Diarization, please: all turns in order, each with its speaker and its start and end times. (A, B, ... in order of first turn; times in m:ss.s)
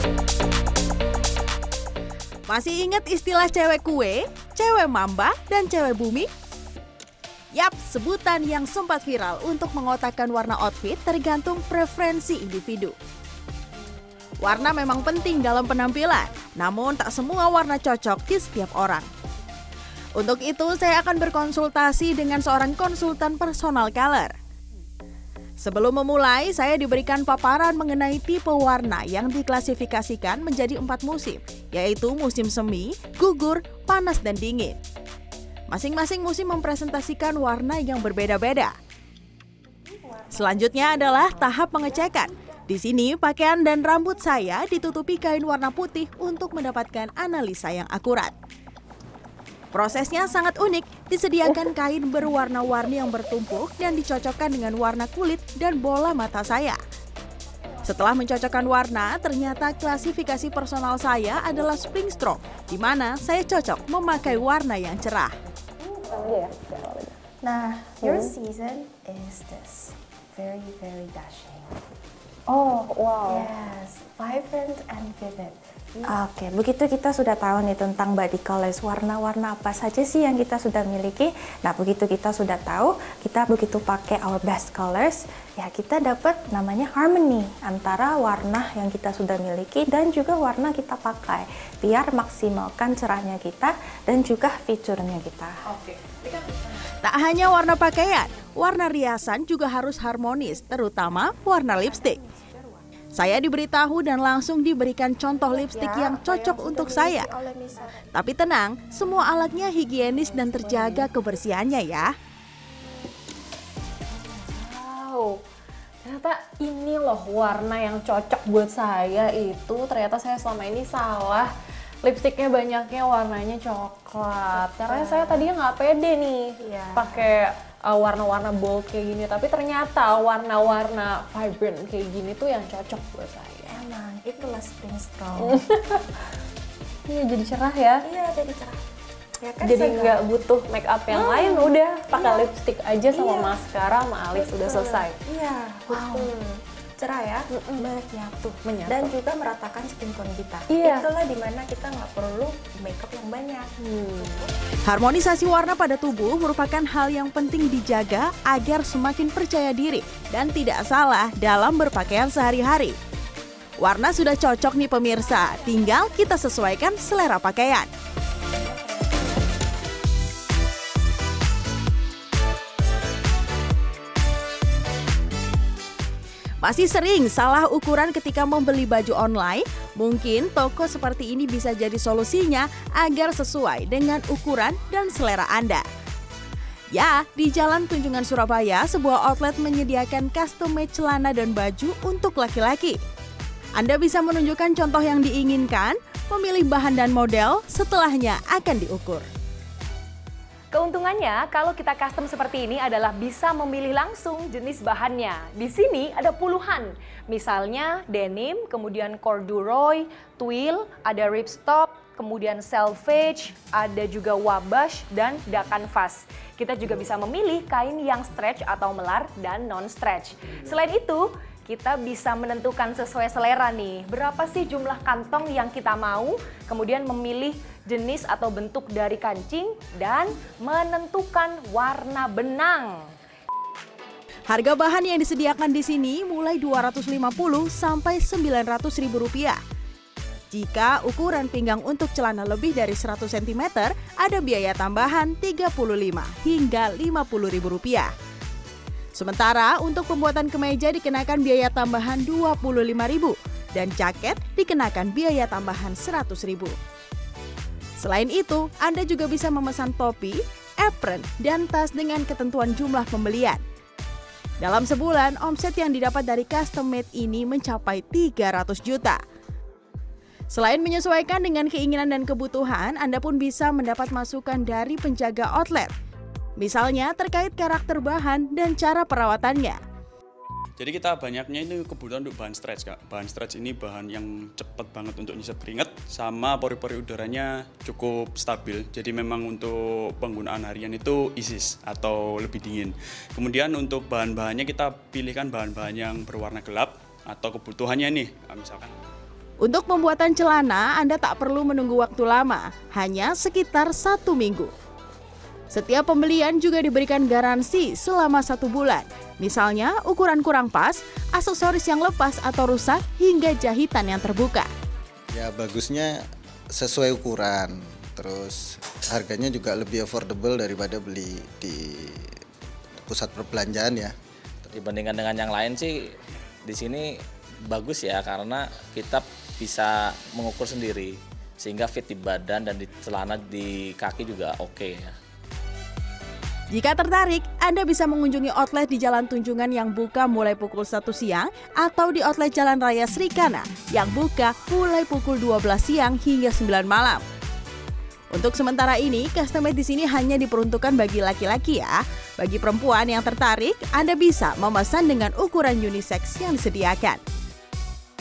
0:02.5-0:06.3 A
0:07.5-0:13.0 A
0:14.4-0:19.1 A
0:20.2-0:24.3 A
0:25.6-0:34.8 A
0:35.7-0:38.8 A
0:40.0-0:41.0 B
0:40.3-0:48.3 A
0:49.7-0:56.8 A
0:57.8-1:05.4 A
1:06.1-1:07.1 C
1:06.1-1:06.4 B
1:07.4-1:11.8 B
1:08.0-1:08.3 C
1:12.5-1:35.7 B
1:12.6-1:13.5 C
1:35.7-1:36.5 C
1:37.0-1:42.2 A
1:40.8-1:42.8 B
1:43.1-1:47.3 A
1:45.4-1:48.2 B
1:48.1-1:52.1 A
1:50.4-1:51.0 B
1:54.1-1:55.4 D
1:56.0-2:01.5 D
2:02.0-2:13.7 D
2:04.5-2:05.5 B
2:06.6-2:07.4 B
2:13.6-2:15.9 B
2:15.4-2:15.8 D
2:17.0-2:18.1 D
2:18.0-2:18.8 B
2:19.4-2:20.2 B
2:19.6-2:25.2 D
2:21.1-2:22.5 B
2:23.1-2:23.6 B
2:24.3-2:34.5 B
2:27.5-2:27.8 D
2:28.6-2:29.1 D
2:30.7-2:31.0 D
2:33.8-2:34.2 D
2:34.8-2:43.0 A
2:43.8-2:47.9 A
2:56.6-3:05.8 A
3:06.9-3:13.0 A
3:13.8-3:19.3 A
3:20.7-3:53.1 C
3:54.5-3:59.6 A
4:00.5-4:08.1 A
4:09.2-4:16.8 A
4:18.0-4:23.6 A
4:24.6-4:29.2 A
4:30.5-4:35.9 A
4:36.6-4:39.8 A
4:40.8-4:58.9 E
4:59.6-5:04.7 A
5:05.7-5:14.7 A
5:15.3-5:22.3 F
5:23.1-5:24.1 F
5:24.7-5:26.0 G
5:26.6-5:27.2 G
5:27.7-5:35.2 G
5:36.7-5:47.2 A
5:48.3-5:57.2 A